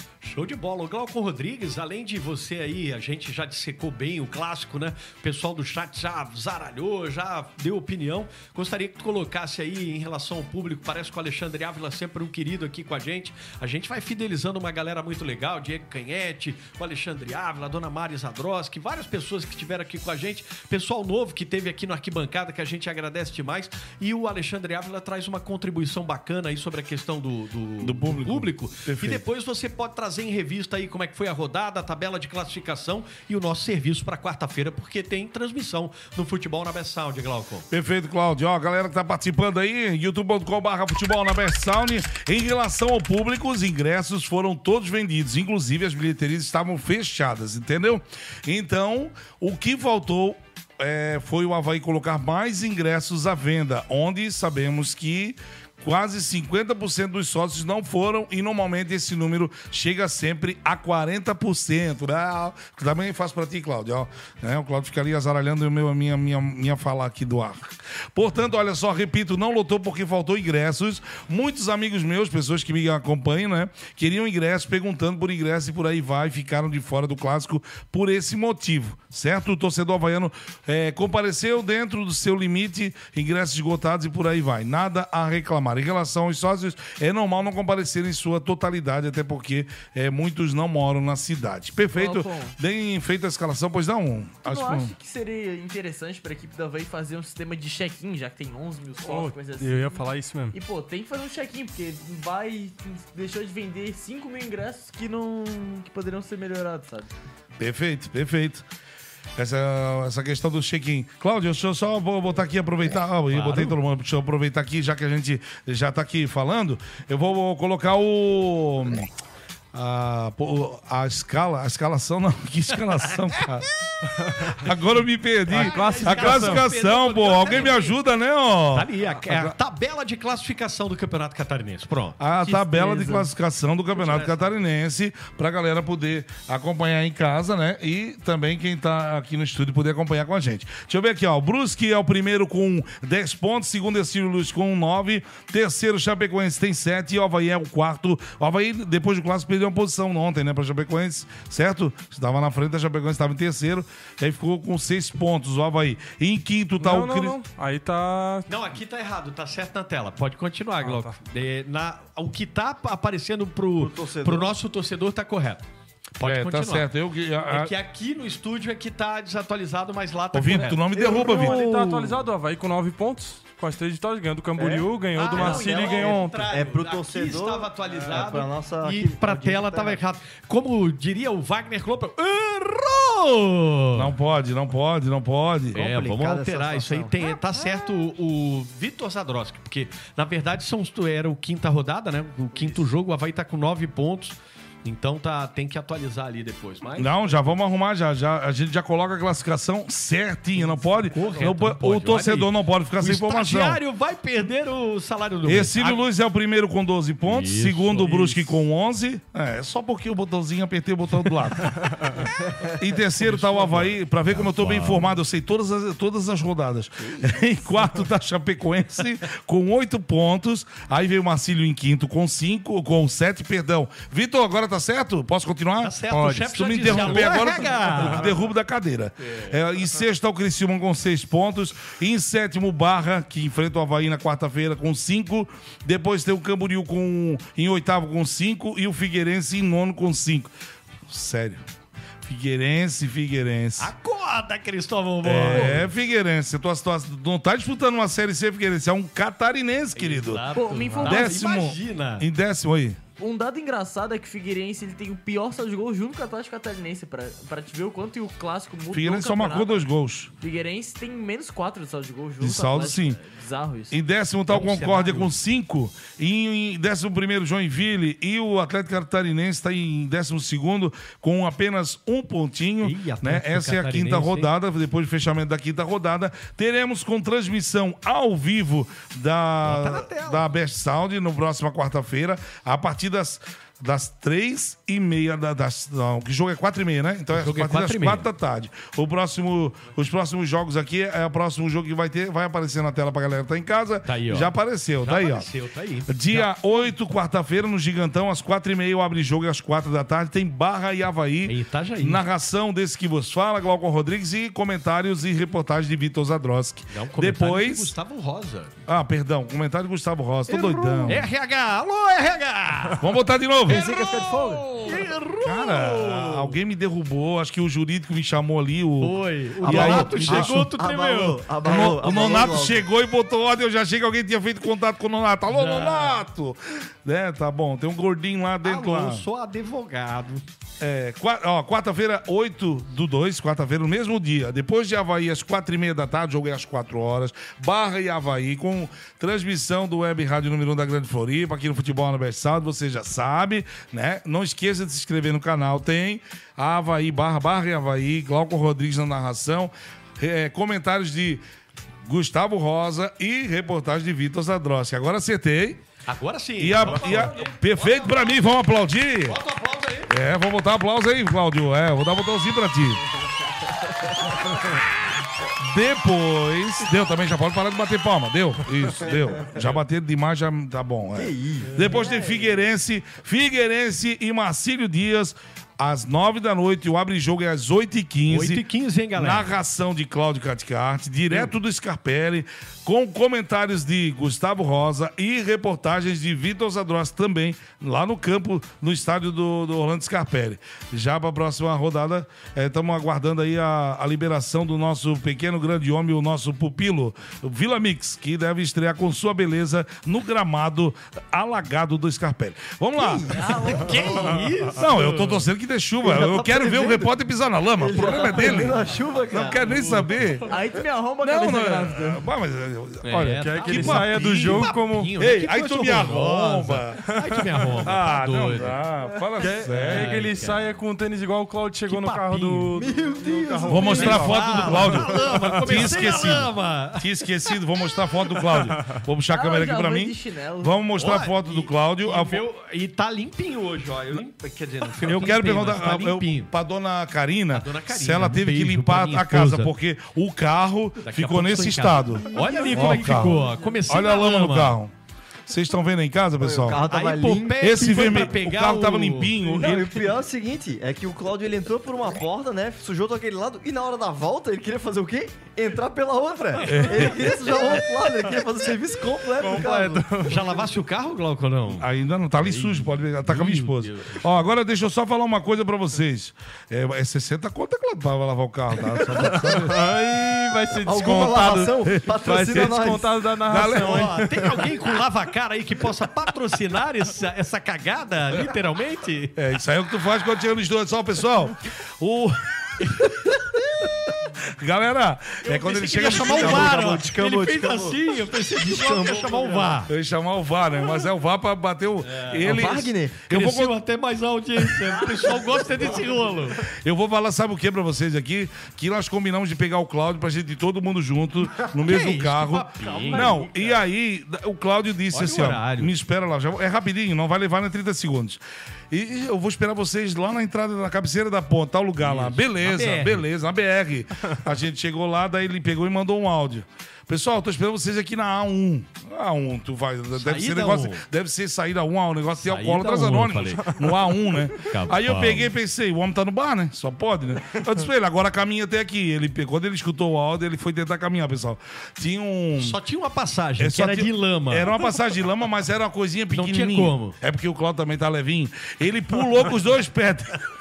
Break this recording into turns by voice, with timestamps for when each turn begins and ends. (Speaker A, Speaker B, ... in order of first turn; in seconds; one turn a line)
Speaker A: 0.2-37.7
Speaker B: 27.8-29.2
Speaker B: 37.7-94.9
Speaker C: 92.0-92.5
Speaker C: 94.5-107.1
Speaker D: 99.0-100.6
Speaker B: 107.6-108.6
Speaker B: 109.4-119.1
Speaker A: 113.3-113.8
Speaker B: 119.7-123.7
Speaker D: 124.2-124.5
Speaker B: 124.5-129.5
Speaker D: 125.5-126.7
Speaker A: 125.5-128.0
Speaker A: 128.7-132.2
Speaker B: 132.2-157.3
Speaker C: 132.4-133.3
Speaker A: 133.9-134.5
Speaker D: 156.8-158.5
Speaker A: 158.5-165.7
Speaker D: 160.8-161.2
Speaker E: 163.8-164.5
Speaker A: 166.2-166.9
Speaker B: 166.2-167.7
Speaker A: 167.5-170.8
Speaker B: 170.3-172.2
Speaker D: 171.0-176.5
Speaker E: 174.6-180.0
Speaker A: 175.1-184.1
Speaker B: 183.9-185.8
Speaker E: 185.7-187.1
Speaker A: 185.7-197.1
Speaker B: 197.0-203.8
Speaker A: 200.7-206.0
Speaker B: 205.5-211.8
Speaker A: 207.2-208.5
Speaker D: 211.8-212.1
Speaker B: 212.8-240.5
Speaker A: 213.2-215.1
Speaker A: 225.8-228.3
Speaker A: 229.2-229.6
Speaker B: 241.1-241.6
Speaker B: 242.2-243.9
Speaker A: 243.8-245.9
Speaker B: 245.2-250.4
Speaker A: 249.9-252.2
Speaker C: 250.6-251.5
Speaker B: 251.0-253.0
Speaker C: 253.2-259.9
Speaker B: 258.9-260.3
Speaker C: 260.4-263.9
Speaker B: 262.4-263.2
Speaker B: 263.9-295.5
Speaker A: 264.5-265.3
Speaker A: 272.8-274.5
Speaker A: 279.6-280.5
Speaker A: 287.3-288.3
Speaker A: 294.1-296.9
Speaker B: 296.1-307.9
Speaker A: 301.4-302.2
Speaker A: 306.9-308.7
Speaker B: 308.9-311.3
Speaker E: 310.5-311.1
Speaker A: 310.6-313.0
Speaker B: 313.0-313.9
Speaker E: 313.7-315.0
Speaker A: 313.7-316.6
Speaker B: 315.4-320.6
Speaker A: 319.0-321.4
Speaker E: 319.6-322.9
Speaker B: 321.6-329.2
Speaker A: 325.5-326.2
Speaker A: 328.6-330.4
Speaker B: 330.8-351.4
Speaker B: 352.1-355.8
Speaker A: 356.1-358.4
Speaker B: 356.6-359.4
Speaker A: 359.3-360.1
Speaker B: 360.1-363.0
Speaker B: 365.6-378.6
Speaker E: 371.1-371.8
Speaker A: 371.7-372.0
Speaker C: 371.9-372.6
Speaker A: 378.3-379.5
Speaker B: 379.2-403.3
Speaker E: 403.0-403.9
Speaker C: 403.4-403.9
Speaker A: 403.6-405.4
Speaker B: 404.8-408.8
Speaker E: 406.0-407.1
Speaker E: 407.8-409.8
Speaker B: 409.3-410.5
Speaker A: 409.5-410.0
Speaker C: 410.5-412.2
Speaker B: 411.2-417.0
Speaker A: 413.0-418.8
Speaker D: 413.4-415.1
Speaker B: 417.8-420.2
Speaker D: 419.4-425.7
Speaker A: 419.7-420.6
Speaker A: 421.9-422.7
Speaker E: 422.8-424.3
Speaker B: 423.7-432.4
Speaker A: 423.8-427.1
Speaker D: 428.7-429.0
Speaker C: 429.3-430.8
Speaker A: 431.0-436.5
Speaker B: 435.0-444.9
Speaker A: 437.5-439.7
Speaker A: 441.0-444.8
Speaker E: 442.7-443.3
Speaker B: 445.5-446.8
Speaker E: 446.4-448.3
Speaker A: 446.9-449.4
Speaker B: 447.6-450.0
Speaker E: 449.5-460.2
Speaker A: 456.6-457.4
Speaker B: 456.7-457.2
Speaker D: 459.4-460.4
Speaker A: 460.2-461.9
Speaker B: 461.7-469.8
Speaker A: 462.4-464.3
Speaker D: 469.0-474.7
Speaker E: 470.9-473.1
Speaker B: 471.8-472.9
Speaker B: 473.5-474.2
Speaker A: 473.8-479.4
Speaker B: 479.4-483.0
Speaker B: 484.6-487.1
Speaker A: 485.4-489.9
Speaker E: 485.9-488.0
Speaker E: 488.6-489.8
Speaker B: 489.9-493.8
Speaker A: 492.0-496.6
Speaker E: 492.4-493.2
Speaker B: 496.8-508.4
Speaker A: 501.6-503.8
Speaker A: 505.1-505.9
Speaker B: 508.9-532.8
Speaker A: 512.0-513.2
Speaker A: 520.2-521.0
Speaker A: 522.4-523.8
Speaker A: 524.6-525.5
Speaker A: 532.6-534.7
Speaker B: 533.6-540.4
Speaker A: 536.3-537.1